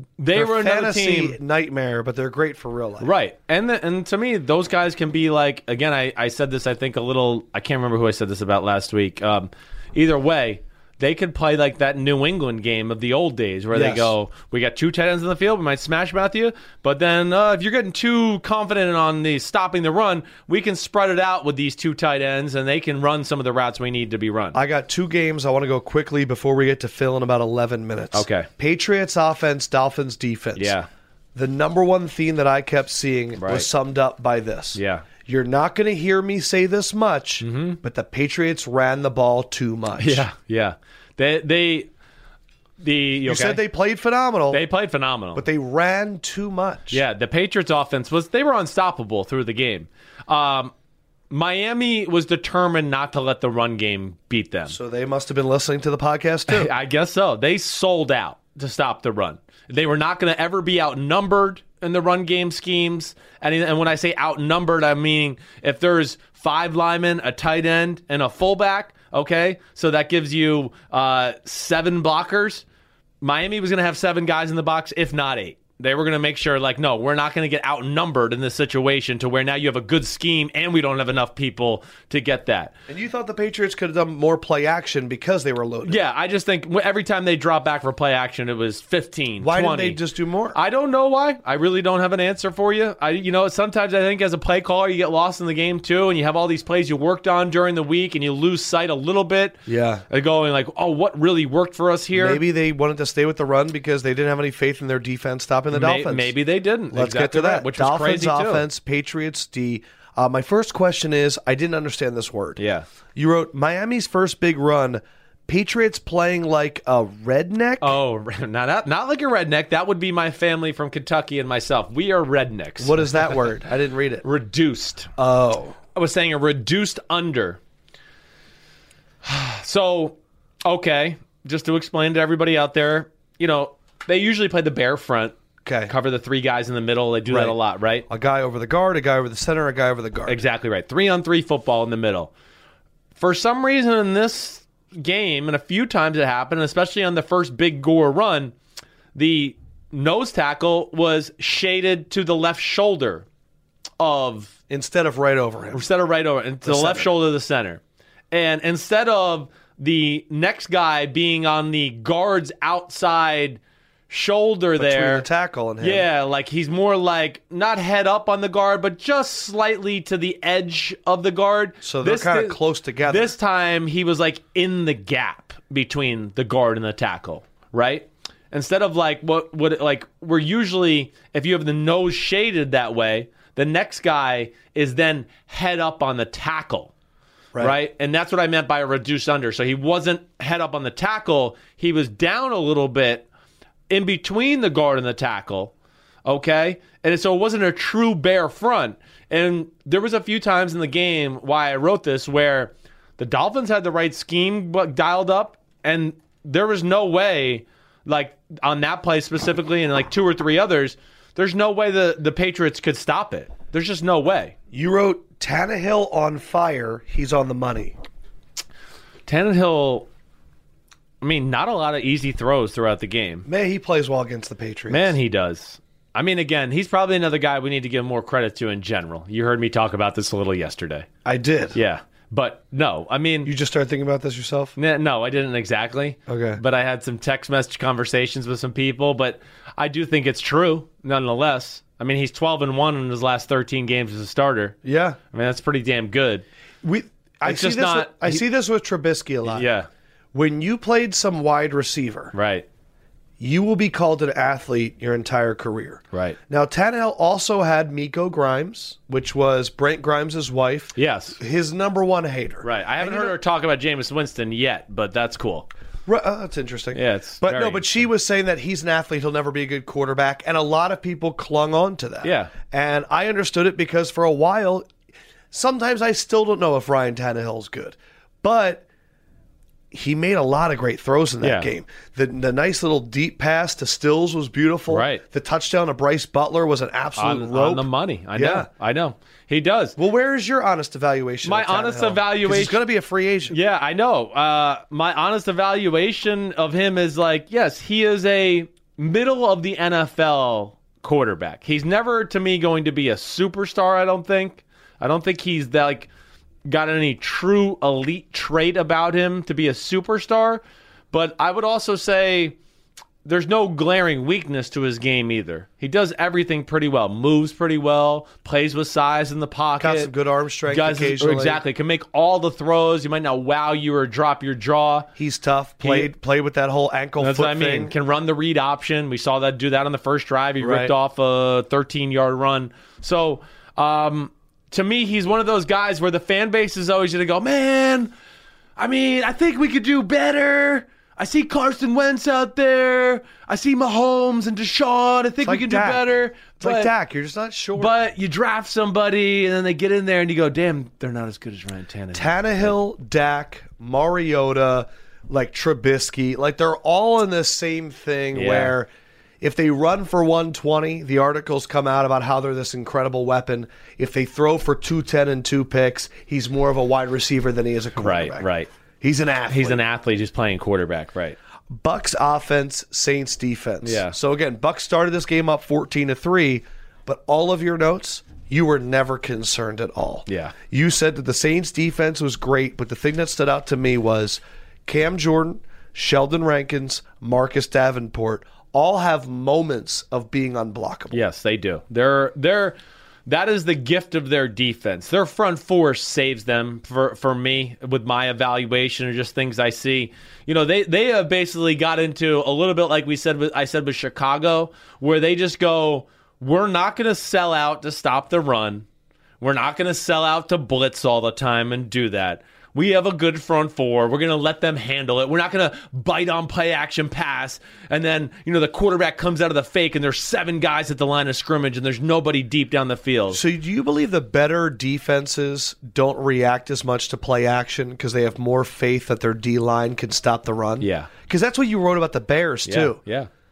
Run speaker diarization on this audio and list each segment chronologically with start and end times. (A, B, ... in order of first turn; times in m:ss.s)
0:00.2-0:01.4 A
0:00.3-0:03.1 B
0:03.0-0:24.6 A
0:13.7-0:14.1 B
0:24.5-0:30.7 B
0:28.1-0:28.5 A
0:30.6-0:30.9 A
0:31.3-0:40.2 B
0:33.4-0:33.7 A
0:34.7-0:35.1 A
0:37.4-0:37.8 A
0:40.0-0:41.9 A
0:42.8-0:43.6 A
0:43.2-0:44.6 B
0:44.5-0:45.4 A
0:45.3-0:47.0 B
0:46.9-0:50.7 A
0:51.3-0:54.8 A
0:54.7-0:56.7 B
0:56.5-1:12.6 A
1:13.2-1:22.7 A
1:22.9-1:26.0 B
1:25.8-1:30.0 A
1:29.4-1:30.6 B
1:30.5-1:39.6 A
1:39.7-1:40.0 B
1:40.1-1:42.4 A
1:42.1-1:46.3 B
1:45.7-1:48.6 A
1:46.9-1:52.6 B
1:52.6-1:52.8 A
1:53.1-1:57.9 B
1:57.8-2:03.4 A
2:02.8-2:04.2 B
2:04.2-2:05.1 A
2:05.2-2:05.8 B
2:05.9-2:07.6 A
2:09.2-2:15.3 A
2:15.6-2:15.9 B
2:15.9-2:18.0 A
2:17.3-2:17.6 B
2:18.1-2:20.4 B
2:20.3-2:22.3 A
2:23.2-2:28.5 A
2:29.1-2:33.2 A
2:34.0-2:34.5 A
2:34.7-2:35.8 B
2:35.7-2:45.2 A
2:36.6-2:37.1 B
2:44.8-2:46.1 B
2:45.8-3:06.9 A
2:51.8-2:53.3 B
3:07.6-3:13.2 A
3:13.9-3:15.7 A
3:16.2-3:34.5 A
3:34.7-3:38.0 B
3:39.2-3:40.1 A
3:41.2-3:43.5 A
3:43.4-3:45.1 B
3:44.9-3:51.1 A
3:51.2-3:51.8 B
3:51.7-3:53.5 A
3:53.4-3:54.7 B
3:54.8-4:04.8 A
3:56.3-3:56.6 B
4:04.8-4:05.2 B
4:05.3-4:06.4 A
4:06.8-4:09.7 B
4:07.4-4:08.4 A
4:09.5-4:09.9 A
4:10.3-4:12.3 B
4:12.3-4:12.6 A
4:13.4-4:23.3 B
4:16.1-4:16.4 A
4:21.0-4:21.4 A
4:22.6-4:25.7 A
4:26.0-4:34.9 B
4:26.9-4:27.9 A
4:32.2-4:32.5 A
4:35.5-4:38.8 B
4:39.9-4:48.7 B
4:41.4-4:41.7 A
4:44.9-4:45.2 A
4:47.2-4:50.0 A
4:50.0-4:53.6 B
4:51.4-4:52.8 A
4:53.5-5:06.1 A
5:06.6-5:12.6 A
5:13.2-5:20.1 A
5:19.8-5:21.6 B
5:20.7-5:25.1 A
5:25.2-5:27.9 B
5:25.8-5:26.1 A
5:27.2-5:38.1 A
5:30.6-5:30.9 B
5:38.8-5:46.9 A
5:45.4-5:46.0 B
5:46.6-5:47.9 B
5:47.7-5:52.7 A
5:52.1-5:58.9 B
5:58.3-5:58.7 A
5:59.4-6:08.5 B
6:08.0-6:08.7 A
6:09.0-6:09.8 B
6:09.5-6:11.4 A
6:11.7-6:31.2 B
6:13.8-6:14.1 A
6:20.3-6:20.5 A
6:31.1-6:48.8 A
6:49.4-7:03.4 A
7:03.3-7:13.0 B
7:10.8-7:11.1 A
7:12.7-7:13.3 A